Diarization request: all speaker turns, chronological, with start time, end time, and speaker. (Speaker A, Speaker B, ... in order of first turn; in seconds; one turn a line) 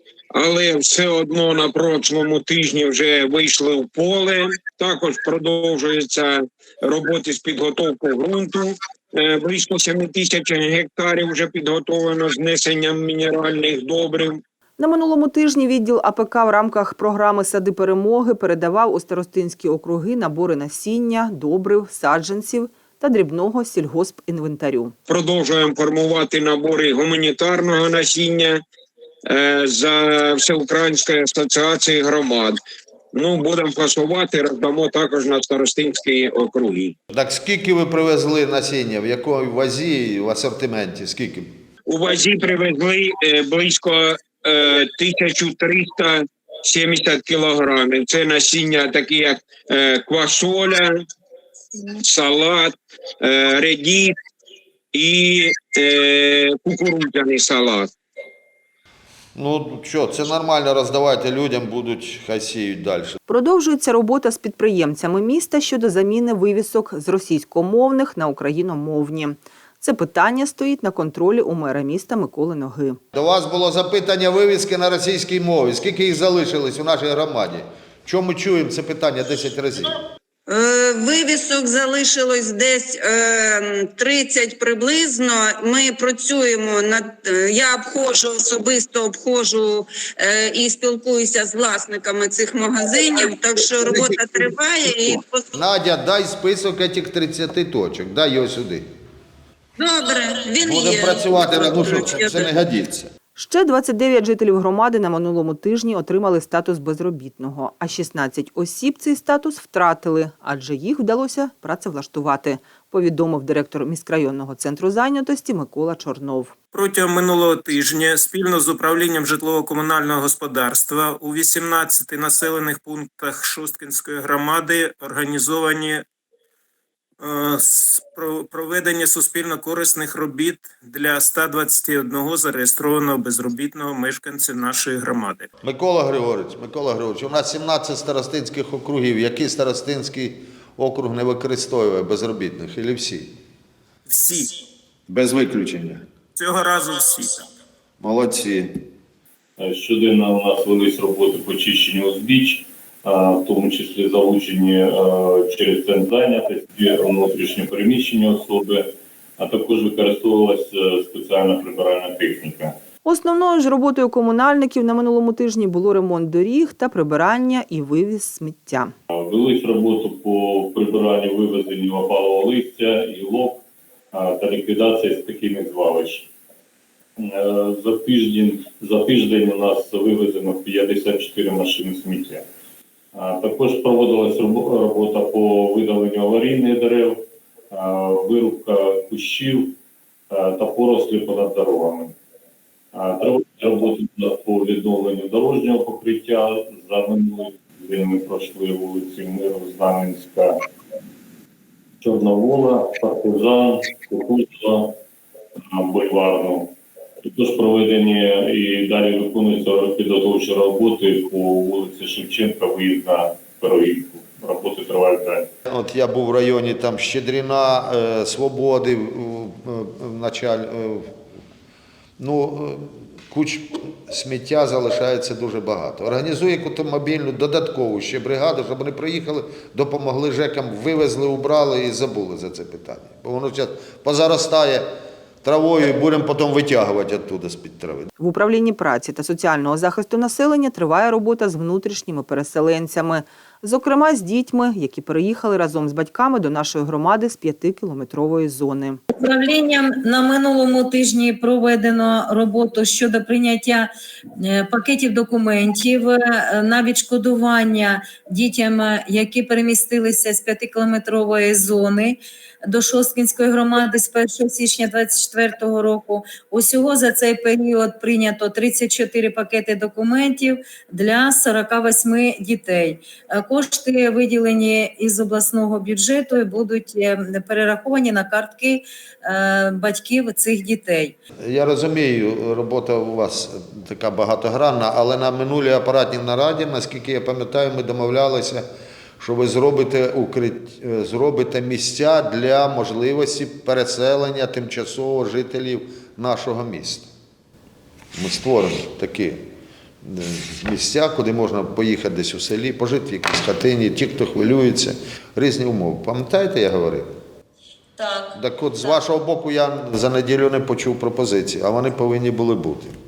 Speaker A: 0.3-14.4
Speaker B: 14.8-24.9
Speaker A: 25.1-28.6
Speaker A: 29.3-32.6
Speaker A: 33.1-37.0
Speaker C: 37.1-41.5
Speaker A: 41.9-50.9
Speaker A: 52.0-54.1
Speaker A: 54.9-57.9
Speaker C: 59.4-63.2
Speaker B: 63.3-73.0
Speaker C: 73.1-80.0
Speaker D: 80.5-95.5
Speaker C: 93.8-98.8
Speaker D: 99.8-102.5
Speaker C: 100.6-103.1
Speaker B: 103.3-116.5
Speaker E: 116.7-126.0
Speaker E: 127.2-135.5
Speaker C: 135.6-143.3
Speaker E: 144.1-144.6
Speaker C: 145.1-146.0
Speaker E: 146.4-147.4
Speaker C: 148.0-148.7
Speaker F: 149.6-162.8
Speaker B: 163.0-168.9
Speaker F: 169.1-176.3
Speaker F: 177.2-182.4
Speaker F: 183.1-189.8
Speaker F: 190.3-192.1
Speaker F: 192.9-200.5
Speaker F: 202.0-205.0
Speaker F: 205.7-215.5
Speaker C: 215.7-221.1
Speaker C: 222.2-234.8
Speaker C: 235.4-238.1
Speaker B: 238.2-249.0
Speaker G: 249.2-281.1
Speaker C: 281.4-288.6
Speaker C: 289.2-297.1
Speaker C: 298.1-299.4
Speaker C: 300.0-307.1
Speaker C: 308.3-312.9